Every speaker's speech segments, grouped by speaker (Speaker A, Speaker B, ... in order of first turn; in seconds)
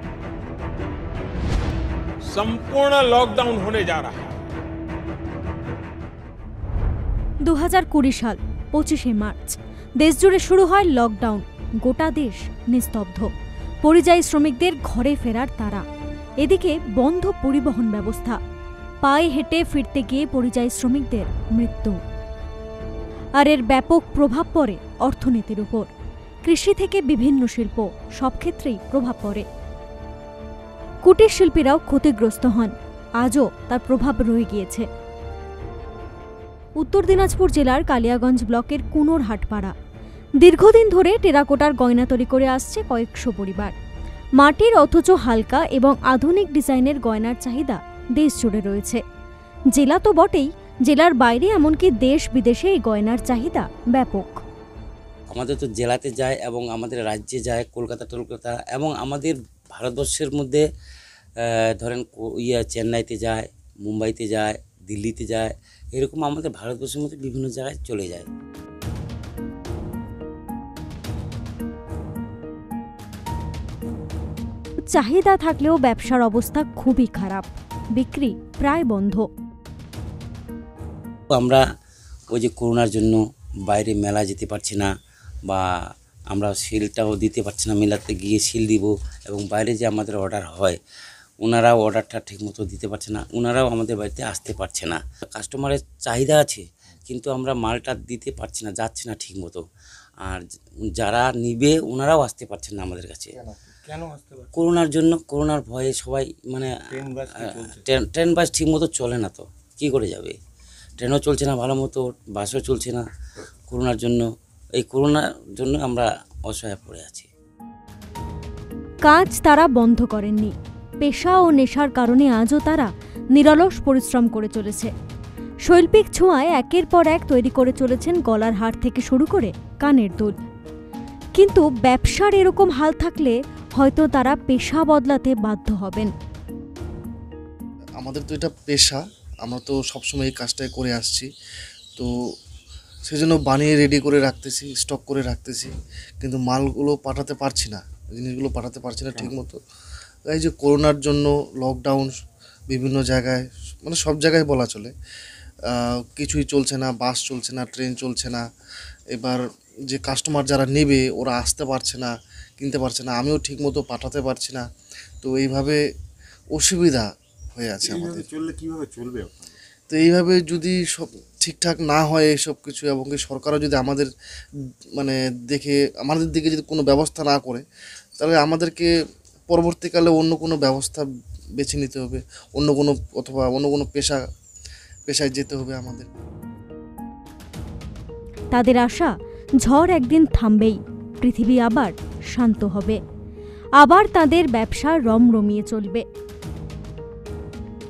Speaker A: 2.3-4.3
Speaker B: 7.4-13.3, 13.8-15.8, 16.4-18.4, 19.0-22.0, 23.4-25.9, 26.4-29.5, 31.0-34.9, 36.8-39.7, 40.4-43.7, 44.4-49.0, 49.7-54.4, 74.8-79.3, 119.0-124.9, 125.7-130.3, 131.4-136.1, 188.5-189.1, 189.6-193.0, 193.8-196.0
Speaker C: 55.3-60.6, 61.4-68.3, 81.3-81.6, 82.3-84.9, 86.3-90.8, 91.4-99.6, 100.2-103.3, 104.5-110.3, 111.0-113.0, 113.7-114.2, 114.8-117.3
Speaker D: 103.4-104.5, 106.9-107.8, 167.8-169.6
Speaker E: 138.0-141.3, 143.1-149.6, 150.3-152.2, 152.7-154.9, 155.7-158.4, 159.1-164.7, 165.2-165.8, 166.5-168.3, 169.9-174.1, 175.0-177.6, 178.2-178.9, 179.5-181.1, 181.6-184.2, 185.1-186.1